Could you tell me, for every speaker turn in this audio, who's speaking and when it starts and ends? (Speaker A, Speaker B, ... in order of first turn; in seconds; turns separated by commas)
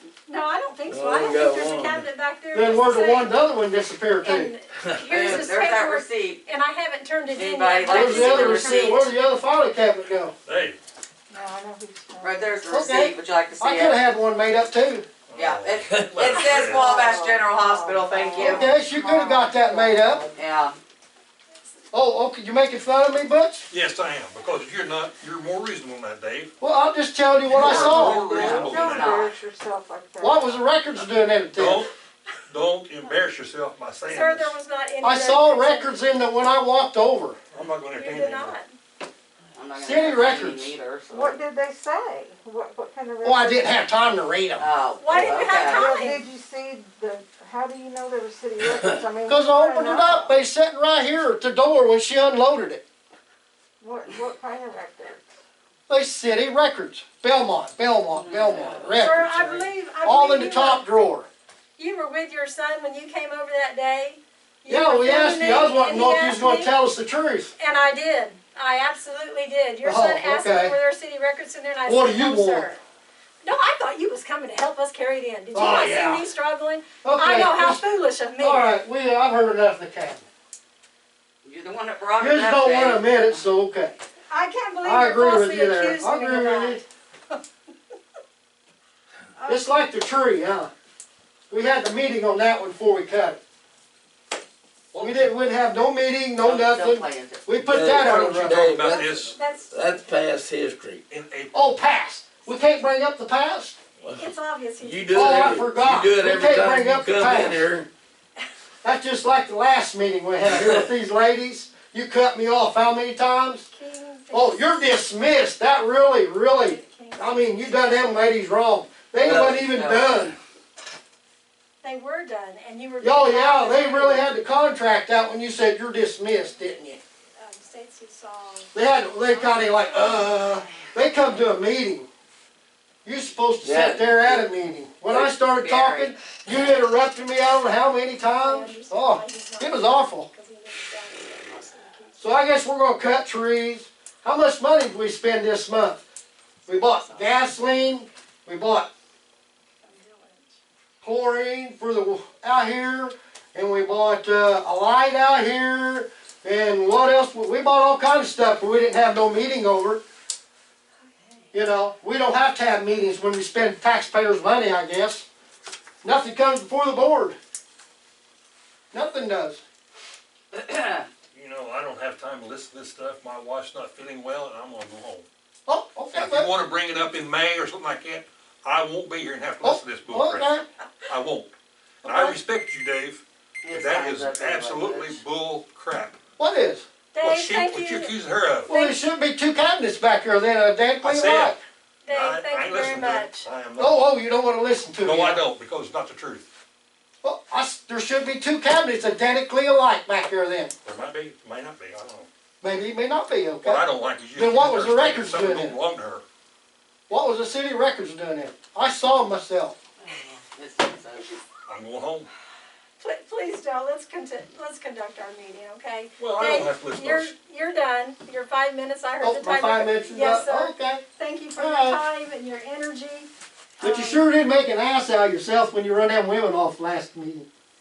Speaker A: 0.3-3.4, Speaker B: 0.9-2.0, Speaker C: 2.5-4.5, Speaker A: 4.2-9.0, Speaker D: 5.1-6.4, Speaker D: 7.3-9.1, Speaker C: 7.9-10.3, Speaker E: 10.5-10.8, Speaker F: 11.3-12.7, Speaker D: 12.2-14.0, Speaker C: 12.7-15.1, Speaker E: 15.3-16.9, Speaker D: 15.3-18.7, Speaker F: 16.6-20.3, Speaker C: 18.4-20.3, Speaker D: 20.3-20.8, Speaker C: 21.9-23.7, Speaker E: 23.7-26.5, Speaker C: 26.6-28.7, Speaker E: 27.5-29.3, Speaker F: 27.6-30.6, Speaker D: 28.2-29.3, Speaker C: 30.2-31.9, Speaker E: 31.5-31.9, Speaker E: 32.5-34.5, Speaker A: 34.1-36.0, Speaker C: 35.0-37.4, Speaker E: 37.5-38.6, Speaker A: 37.9-38.8, Speaker D: 39.5-41.4, Speaker C: 39.8-40.7, Speaker F: 41.1-43.9, Speaker C: 43.2-44.7, Speaker D: 44.6-45.9, Speaker A: 45.0-46.2, Speaker E: 45.1-45.5, Speaker F: 45.7-50.3, Speaker C: 49.3-52.8, Speaker F: 53.8-55.3, Speaker C: 55.9-59.3, Speaker D: 58.1-59.7, Speaker A: 58.9-60.8, Speaker C: 60.0-61.3, Speaker A: 61.8-66.7, Speaker C: 64.7-67.5, Speaker A: 67.6-72.8, Speaker C: 69.8-70.7, Speaker C: 71.9-72.7, Speaker A: 73.4-78.8, Speaker C: 75.5-76.2, Speaker C: 77.0-77.8, Speaker C: 78.4-80.2, Speaker D: 81.4-83.1, Speaker C: 82.2-84.0, Speaker A: 84.3-86.8, Speaker C: 84.8-86.8, Speaker C: 89.5-90.7, Speaker C: 91.5-93.4, Speaker E: 94.9-95.3, Speaker C: 95.0-98.6, Speaker D: 96.4-97.5, Speaker B: 97.6-101.0, Speaker E: 98.5-99.3, Speaker A: 98.9-100.3, Speaker E: 101.1-101.8, Speaker C: 101.5-103.8, Speaker B: 104.0-107.9, Speaker A: 104.1-105.6, Speaker C: 105.1-107.8, Speaker C: 108.8-113.7, Speaker B: 110.5-110.9, Speaker A: 113.7-115.1, Speaker C: 114.3-120.3, Speaker A: 116.5-118.2, Speaker D: 119.2-120.2, Speaker A: 121.8-124.3, Speaker C: 123.0-127.0, Speaker A: 127.4-130.3, Speaker C: 128.7-132.1, Speaker C: 133.1-140.3, Speaker B: 133.6-134.5, Speaker D: 135.1-136.8, Speaker A: 138.2-142.2, Speaker C: 142.2-146.0, Speaker A: 146.7-147.4, Speaker C: 146.7-148.9, Speaker A: 149.8-150.6, Speaker C: 151.0-160.0, Speaker A: 161.1-161.4, Speaker C: 161.5-165.3, Speaker C: 166.0-167.3, Speaker C: 168.9-169.6, Speaker D: 170.5-171.0, Speaker E: 171.3-175.3, Speaker C: 175.7-176.5, Speaker E: 176.1-180.5, Speaker C: 179.6-180.7, Speaker E: 181.1-181.5, Speaker E: 182.0-186.2, Speaker C: 182.1-182.4, Speaker D: 183.6-185.2, Speaker C: 186.4-186.8, Speaker A: 187.1-188.1, Speaker E: 187.2-188.7, Speaker C: 188.7-191.6, Speaker A: 188.7-189.0, Speaker E: 191.0-191.6, Speaker A: 192.1-193.5, Speaker E: 192.1-194.1, Speaker C: 193.8-195.4, Speaker E: 195.0-196.5, Speaker C: 197.2-200.7, Speaker E: 200.8-202.3, Speaker C: 202.6-203.8, Speaker E: 203.6-206.2, Speaker C: 204.3-205.8, Speaker C: 207.1-209.8, Speaker D: 210.0-211.4, Speaker E: 211.7-212.3, Speaker A: 213.0-224.3, Speaker E: 216.2-217.3, Speaker C: 219.2-221.0, Speaker C: 221.6-222.0, Speaker C: 223.8-227.5